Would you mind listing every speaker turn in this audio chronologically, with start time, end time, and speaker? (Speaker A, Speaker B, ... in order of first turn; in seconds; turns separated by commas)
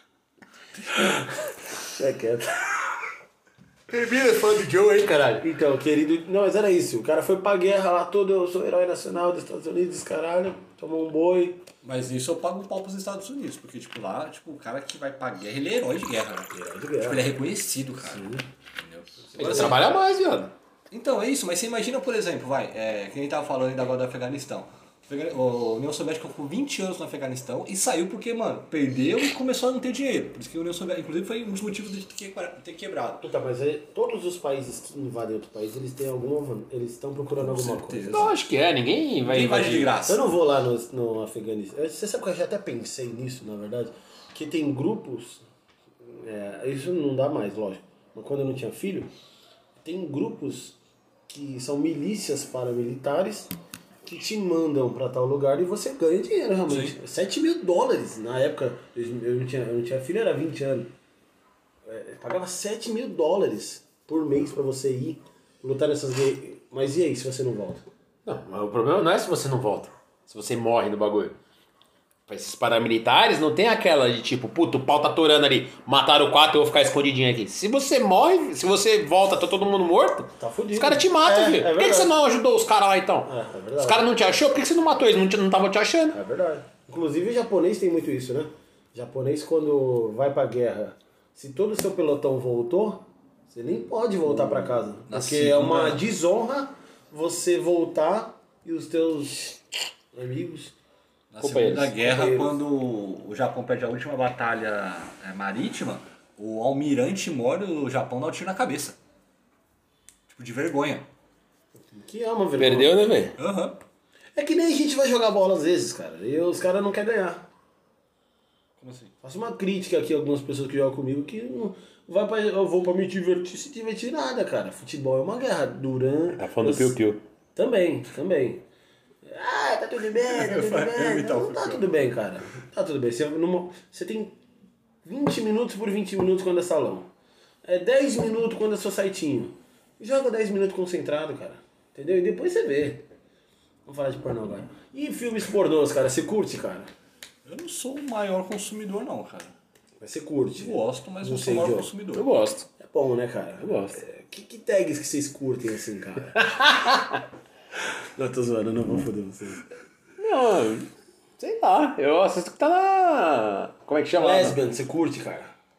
Speaker A: 0.9-2.9, Speaker B: 3.9-5.5, Speaker A: 5.4-11.6, Speaker C: 11.8-19.8, Speaker A: 16.5-17.3, Speaker A: 18.0-18.4, Speaker B: 19.4-20.5, Speaker A: 19.4-19.8, Speaker C: 20.9-33.2, Speaker A: 33.2-38.3, Speaker C: 37.4-38.3, Speaker B: 38.1-39.9, Speaker C: 39.2-40.2, Speaker A: 40.0-45.4, Speaker A: 46.0-49.1, Speaker A: 49.8-50.8, Speaker A: 51.3-53.5, Speaker A: 54.0-60.9, Speaker C: 56.7-56.9, Speaker A: 61.8-67.8, Speaker B: 68.2-71.3, Speaker B: 72.3-86.2, Speaker A: 80.4-82.1, Speaker A: 83.2-84.1, Speaker A: 86.1-99.6, Speaker B: 94.3-94.7, Speaker C: 95.1-96.0, Speaker A: 100.1-100.7, Speaker C: 101.3-109.0, Speaker B: 101.4-101.9, Speaker A: 101.9-102.6, Speaker C: 110.3-111.1, Speaker A: 111.9-113.3, Speaker B: 112.6-113.3, Speaker C: 113.4-113.8, Speaker A: 114.3-117.5, Speaker C: 118.8-119.1, Speaker A: 119.2-127.0, Speaker B: 126.3-127.2, Speaker A: 127.5-128.6, Speaker A: 129.2-134.4, Speaker C: 130.3-131.8, Speaker A: 135.0-137.1, Speaker A: 137.6-143.1, Speaker A: 143.8-146.9, Speaker C: 147.4-149.5, Speaker A: 150.0-151.9, Speaker C: 150.6-152.3, Speaker B: 152.1-152.7, Speaker A: 152.8-156.4, Speaker B: 153.6-154.0, Speaker B: 156.3-157.2, Speaker A: 157.8-159.6, Speaker B: 160.2-164.6, Speaker A: 164.2-165.5